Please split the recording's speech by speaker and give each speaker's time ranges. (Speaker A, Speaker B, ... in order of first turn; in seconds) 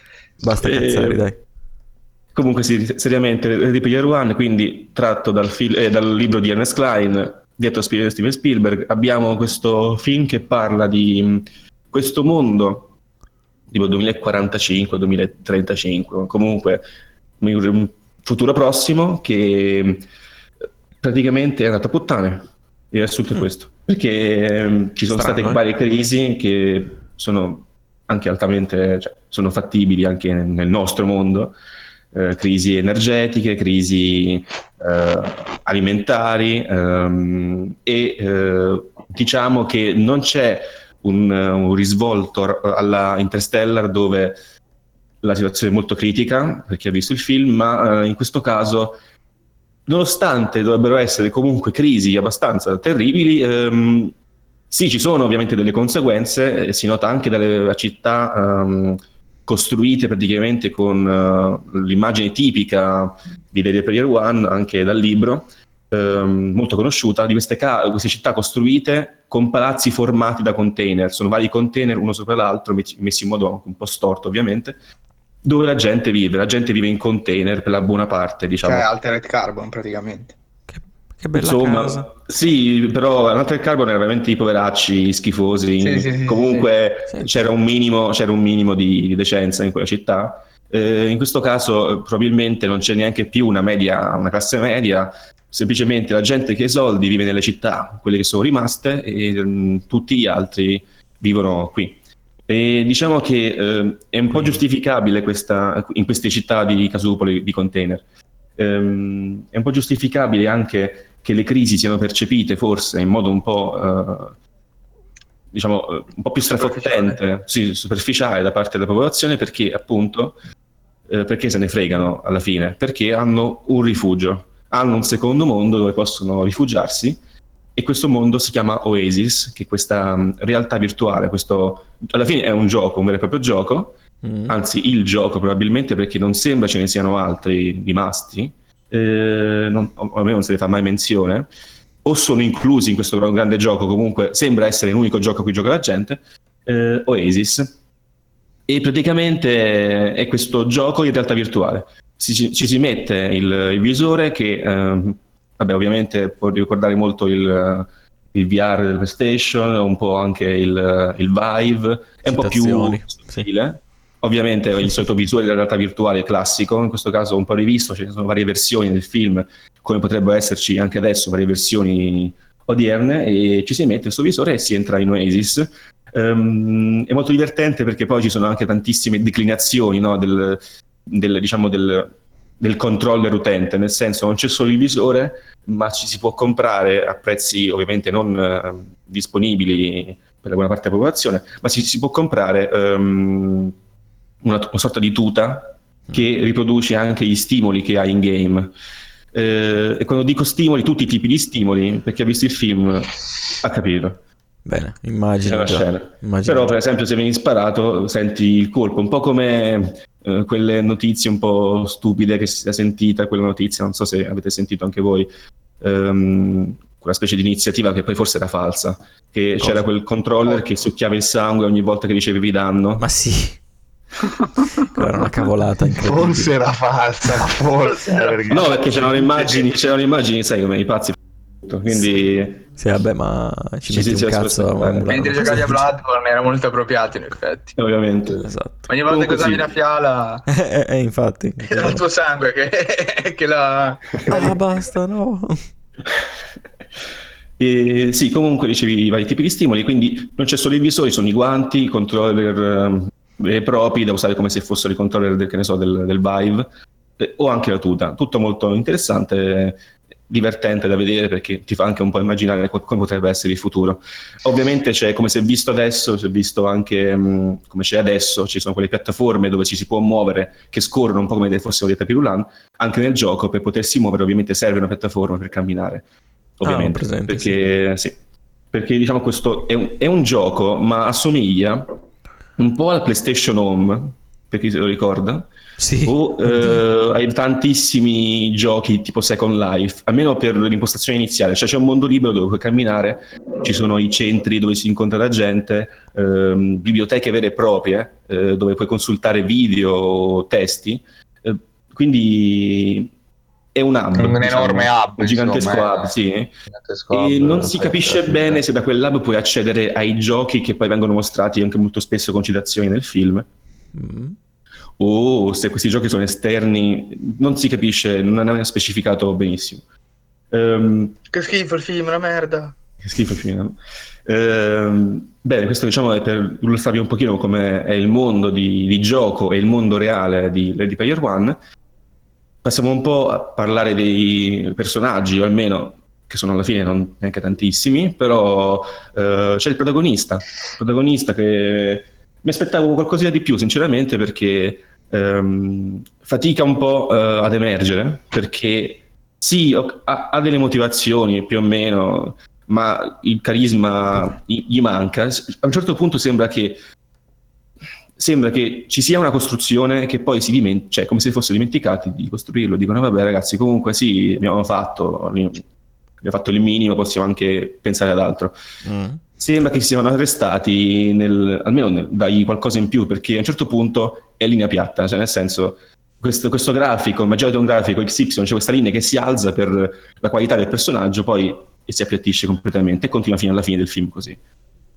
Speaker A: 0.4-1.4, 25.1-25.6, 80.7-82.1, 87.1-87.5, 134.2-134.6, 162.3-163.4, 204.7-206.7, 223.0-223.6, 224.9-226.5, 231.9-232.2, 232.8-235.8, 238.4-238.9, 240.5-242.0, 244.3-245.6, 276.6-277.6, 285.8-286.8, 313.9-314.4, 368.9-369.2
Speaker B: 0.6-1.2, 2.3-12.9, 13.7-16.8, 17.4-20.1, 21.0-31.6, 32.1-44.4, 45.2-49.0, 49.9-54.1, 54.7-74.8, 75.4-78.9, 81.3-108.0, 108.6-114.4, 115.5-120.4, 121.1-127.2, 127.8-133.9, 134.5-141.5, 142.1-147.8, 148.7-193.7, 194.4-198.7, 199.3-204.2, 205.4-215.3, 215.8-223.1, 228.5-232.6, 233.9-235.6, 237.8-238.4, 239.0-239.8, 247.6-256.7, 257.2-276.0, 276.6-278.1, 278.7-281.9, 282.6-285.5, 286.0-303.1, 303.8-306.5, 307.1-313.5, 315.0-319.8, 320.5-321.2, 323.0-331.6, 332.6-356.8, 358.2-365.6, 366.2-368.6, 369.4-384.4
Speaker C: 78.6-80.3, 85.8-86.7, 116.5-117.2, 227.9-228.7, 235.1-237.8, 238.9-240.5, 241.6-244.6, 321.3-322.8
Speaker D: 225.9-229.6, 304.1-306.1, 306.7-308.6